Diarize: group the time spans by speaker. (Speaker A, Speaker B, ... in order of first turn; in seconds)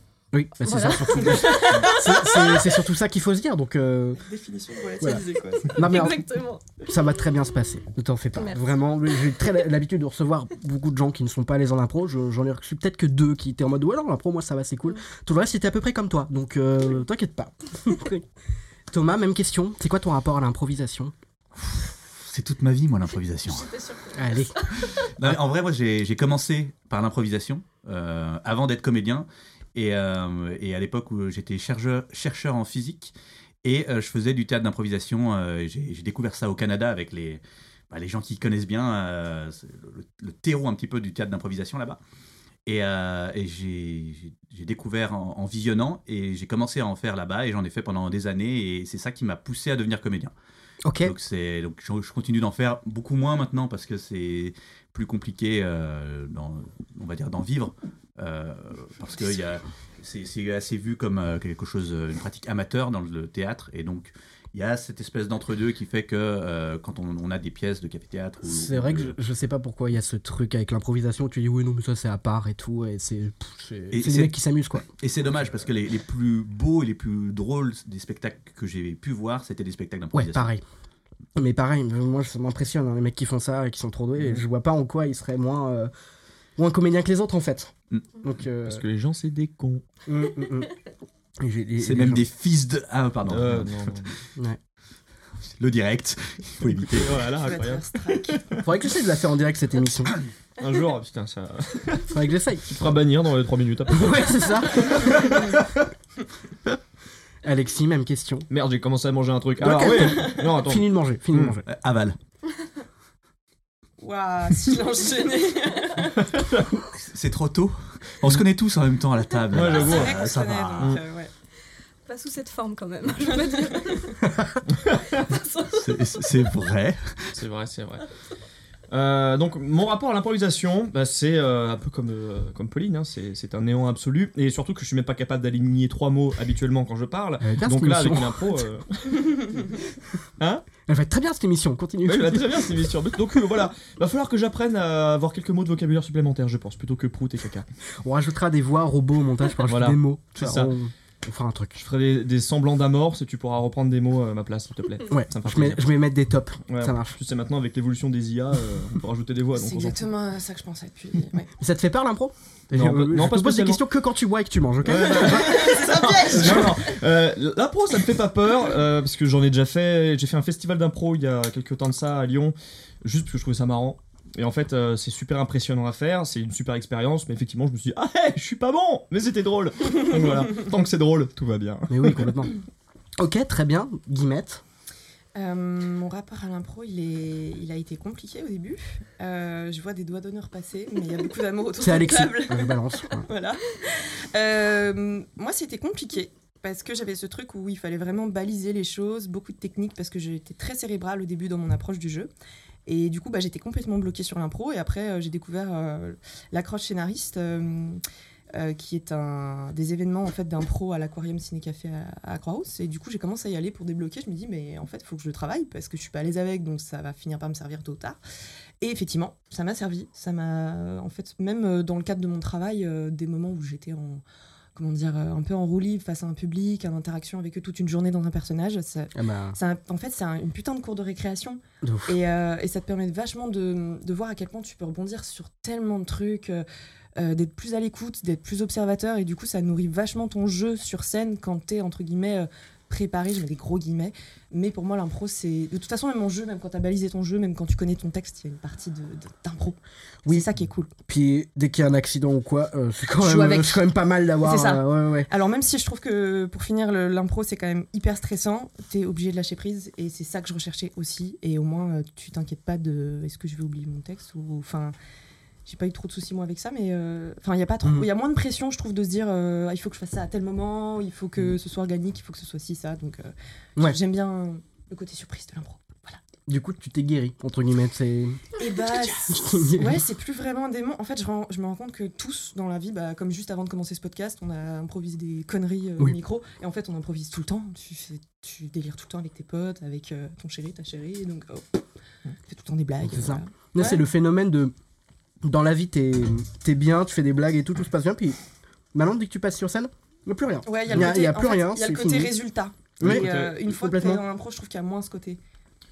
Speaker A: 0.3-4.2, 5.0-6.2, 6.8-18.2, 18.9-21.1, 24.1-24.5, 50.8-51.1, 68.5-74.9, 80.1-80.6, 81.4-85.9, 86.6-87.7, 88.2-88.8, 90.1-90.7, 91.4-92.2, 98.7-100.1, 102.1-102.7, 103.9-105.5, 107.4-108.5, 109.6-111.6, 137.4-138.6, 140.9-142.9, 148.0-151.8, 155.1-157.2, 161.6-166.8, 181.9-182.6, 183.2-184.6, 191.8-193.3, 229.2-229.6, 231.8-232.2, 251.1-255.3, 267.8-268.1, 276.5-278.4, 279.3-280.0, 293.0-294.7, 295.4-298.4, 298.9-302.3, 303.0-304.2
Speaker B: 0.6-1.8, 5.8-6.7, 8.4-8.7, 23.5-24.9, 122.1-124.2, 125.1-126.3
Speaker C: 1.3-2.4, 4.2-6.0, 97.3-98.6, 114.0-116.3, 119.7-121.3, 123.3-124.1, 159.6-161.5, 165.2-166.8, 185.3-202.3, 202.9-208.0, 208.5-218.2, 218.8-224.2, 224.8-236.7, 237.2-250.9, 253.2-253.8, 254.4-264.9, 265.7-276.2, 278.6-291.8, 292.5-294.0, 300.6-305.4
Speaker D: 21.6-23.8, 25.2-33.1, 33.6-42.0, 42.7-50.3, 51.0-69.1, 73.9-74.3, 75.0-80.5, 91.8-93.7, 95.6-97.2, 111.7-112.2, 116.9-121.0, 125.7-127.3
Speaker E: 88.7-89.8, 93.3-94.1, 96.6-98.6, 100.6-105.7, 108.5-111.6, 116.4-116.7, 119.5-120.2, 124.8-125.0, 127.3-128.1, 128.9-139.8, 140.4-140.7, 142.1-147.7, 149.7-150.7, 151.8-155.9, 156.7-160.0, 162.7-163.8, 164.8-182.5, 303.0-303.6